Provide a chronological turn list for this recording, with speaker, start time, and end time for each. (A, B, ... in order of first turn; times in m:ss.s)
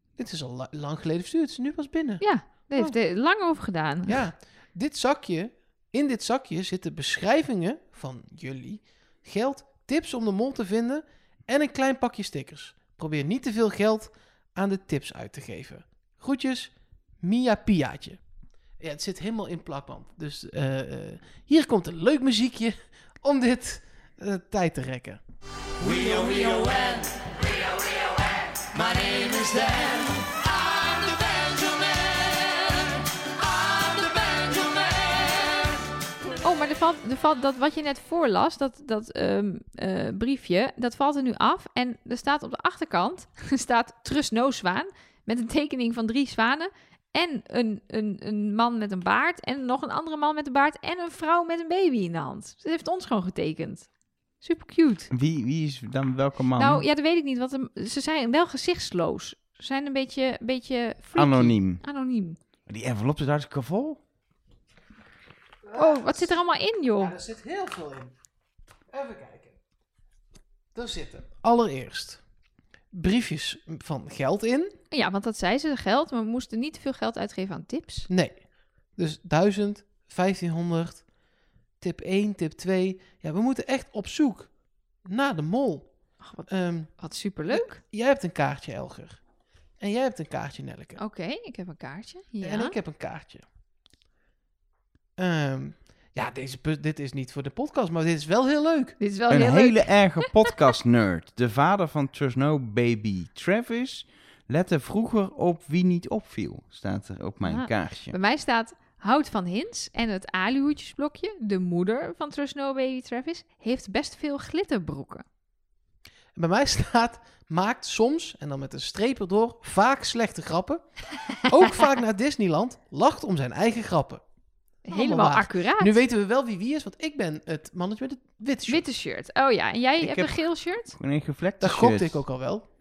0:00.2-0:03.0 A
0:02.2-0:04.2 B
0:04.1-0:18.2 A
0:18.8-0:25.2 A
0:25.9-0:27.0 A
0:29.0-0:29.9 B
0:34.0-0:34.5 B
0:36.4-0:53.9 B
0:54.4-0:55.1 B
0:55.1-0:56.8 C
0:56.6-1:02.4 B
1:01.2-1:01.8 C
1:02.7-1:04.0 C
1:05.6-1:06.3 A
1:05.7-1:07.1 B
1:07.0-1:08.1 A
1:08.9-1:09.6 A
1:10.7-1:12.2 A
1:12.9-1:14.7 A
1:14.9-1:18.1 B
1:18.1-1:21.1 A
1:21.8-1:24.5 A
1:25.0-1:25.9 A
1:26.2-1:27.8 B
1:26.5-1:26.9 A
1:27.5-1:29.2 A
1:29.8-1:31.0 A
1:31.0-1:32.7 B
1:32.4-1:33.4 A
1:35.2-1:39.0 A
1:39.0-1:40.6 B
1:39.3-1:48.1 C
1:47.4-1:55.2 B
1:56.3-2:04.2 A
2:04.8-2:08.8 A
2:04.9-2:05.9 B
2:08.7-2:11.0 B
2:10.0-2:12.2 C
2:11.6-2:12.6 A